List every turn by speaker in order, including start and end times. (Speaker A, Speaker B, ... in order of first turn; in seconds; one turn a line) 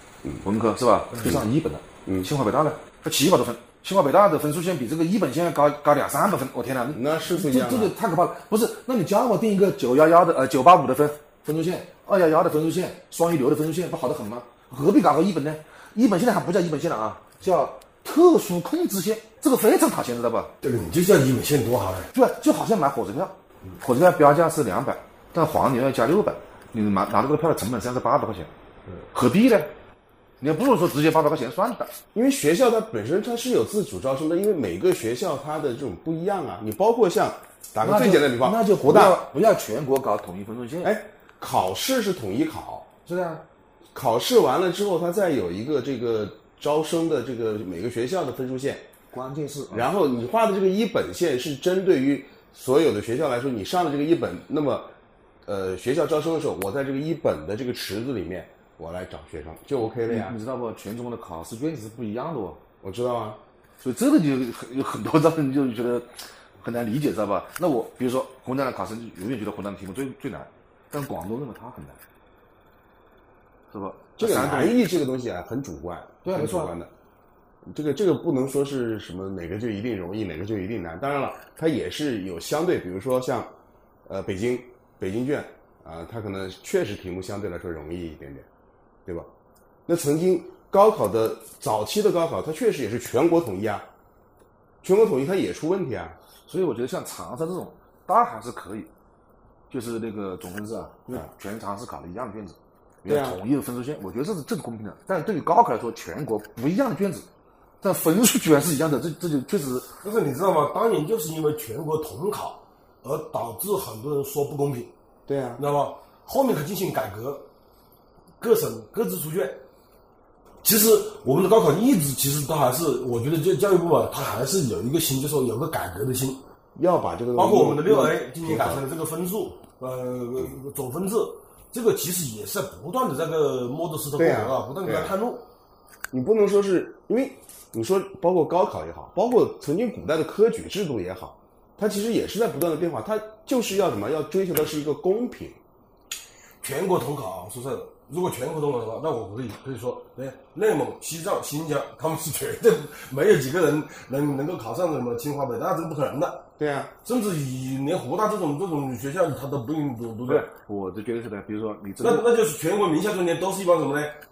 Speaker A: 0.4-20.5
Speaker B: 1.1-1.4
Speaker C: 6.9-7.9
Speaker B: 20.6-22.1
Speaker A: 22.1-28.5
Speaker A: 29.1-29.7
Speaker A: 30.4-31.9
Speaker C: 32.1-39.2
Speaker A: 37.8-41.0
Speaker C: 40.8-42.9
Speaker A: 43.0-43.4
Speaker C: 43.9-48.9
Speaker A: 49.1-49.9
Speaker C: 49.7-54.9
Speaker C: 55.5-60.4
Speaker A: 60.0-62.6
Speaker C: 62.8-63.4
Speaker A: 63.8-72.0
Speaker A: 73.7-74.8
Speaker C: 74.2-76.9
Speaker A: 76.2-76.7
Speaker C: 77.7-83.5
Speaker C: 84.1-88.5
Speaker C: 89.9-93.9
Speaker C: 94.8-96.2
Speaker A: 96.5-98.9
Speaker A: 99.7-107.3
Speaker C: 103.0-103.4
Speaker A: 107.8-109.9
Speaker B: 110.0-114.9
Speaker C: 115.3-115.6
Speaker B: 115.6-117.5
Speaker B: 118.4-119.6
Speaker B: 120.6-126.4
Speaker C: 126.8-128.8
Speaker B: 127.3-135.4
Speaker C: 134.2-135.1
Speaker C: 136.1-145.6
Speaker B: 146.6-156.4
Speaker C: 156.6-156.9
Speaker B: 157.0-160.5
Speaker A: 160.3-162.3
Speaker B: 162.0-164.2